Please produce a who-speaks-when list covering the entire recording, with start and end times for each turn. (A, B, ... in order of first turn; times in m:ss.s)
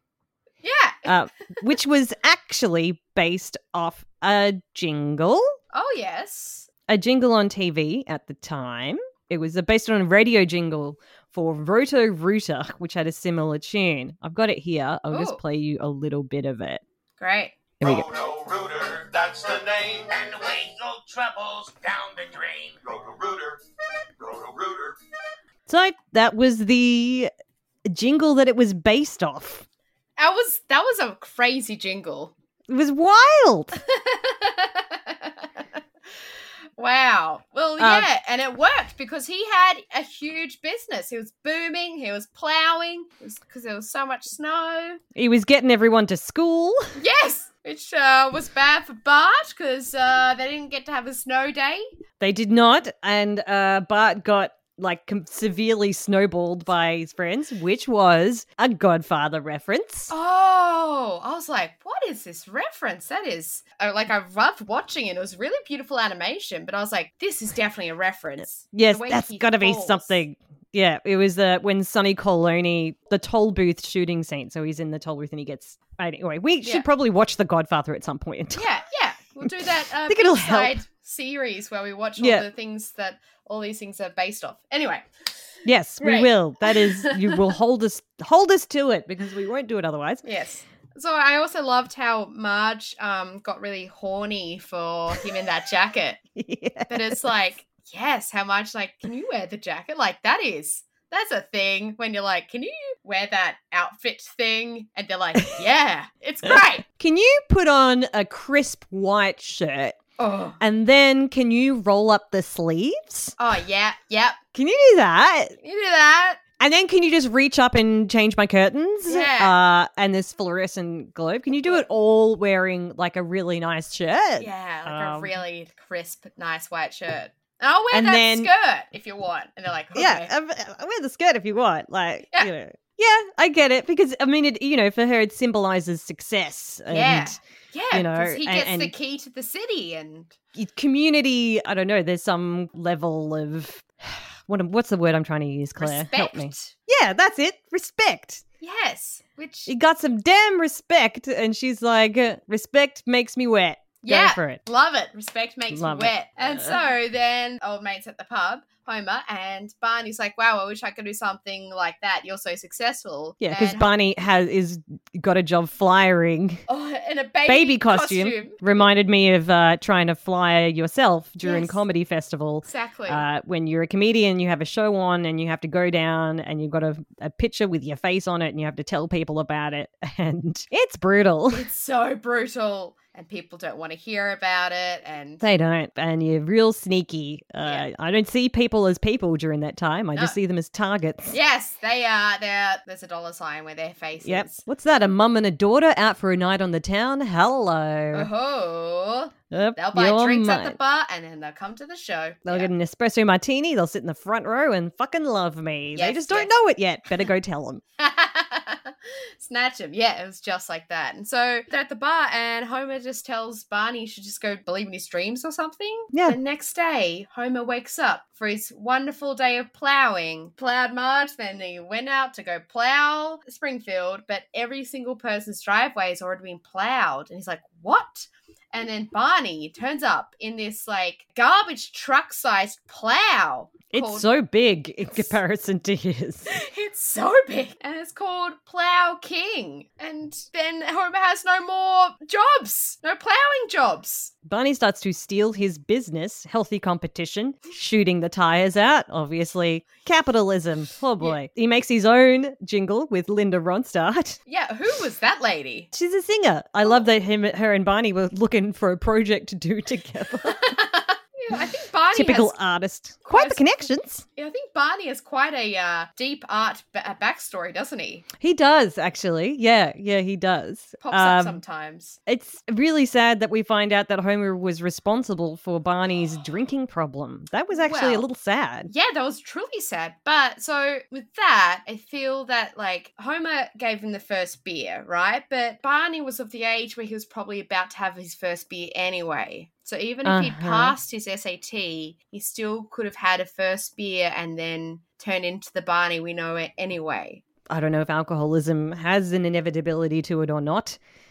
0:00.6-0:01.7 A
0:01.1-0:05.6 B
0:05.7-0:06.7 A
0:06.9-0:16.8 B
0:15.1-0:15.4 A
0:17.2-0:17.6 A
0:17.8-0:18.1 B
0:17.8-0:23.6 C
0:24.2-0:25.0 C
0:25.7-0:27.3 B
0:27.9-0:29.6 B
0:30.2-0:32.3 A
0:32.7-0:33.8 B
0:33.8-0:35.6 A
0:36.8-0:45.0 A
0:37.8-0:38.1 B
0:45.1-0:46.9 B
0:47.0-0:51.9 A
0:52.2-1:00.1 B
1:00.1-1:10.2 A
1:08.7-1:18.7 B
1:18.6-1:25.1 A
1:19.4-1:20.8 B
1:22.2-1:22.4 B
1:25.6-1:30.2 B
1:26.0-1:27.5 A
1:30.2-1:36.2 A
1:36.4-1:37.2 B
1:36.9-1:46.8 A
1:46.5-1:50.0 B
1:50.2-1:50.6 A
1:50.6-1:53.4 B
1:53.4-1:54.4 A
1:54.5-1:55.6 B
1:55.6-1:56.4 A
1:56.6-2:05.4 B
1:59.1-1:59.6 A
2:04.4-2:10.3 A
2:07.9-2:08.5 B
2:09.9-2:17.4 B
2:16.9-2:20.4 A
2:17.9-2:18.9 B
2:20.6-2:28.4 B
2:25.8-2:26.7 A
2:28.6-2:29.7 A
2:29.7-2:34.6 B
2:34.0-2:43.9 A
2:35.7-2:36.8 B
2:43.4-2:46.6 B
2:46.7-2:48.8 A
2:47.4-3:01.7 B
2:51.4-2:51.8 A
2:52.6-2:53.2 A
3:01.5-3:05.4 A
3:05.4-3:11.4 B
3:07.6-3:07.9 A
3:11.3-3:14.6 A
3:14.2-3:18.3 B
3:18.1-3:22.7 A
3:19.5-3:20.8 B
3:22.4-3:27.8 B
3:25.9-3:26.5 A
3:28.0-3:54.3 A
3:36.1-3:36.4 B
3:53.9-3:56.5 B
3:56.5-4:04.3 A
4:04.4-4:14.4 B
4:14.5-4:15.9 A
4:15.9-4:20.7 B
4:20.5-4:22.6 A
4:21.5-4:24.2 B
4:23.3-4:28.3 A
4:28.4-4:31.6 B
4:31.0-4:32.2 A
4:32.3-4:38.9 B
4:37.7-4:38.3 A
4:38.9-4:57.4 A
4:50.2-4:51.0 B
4:57.7-5:01.0 B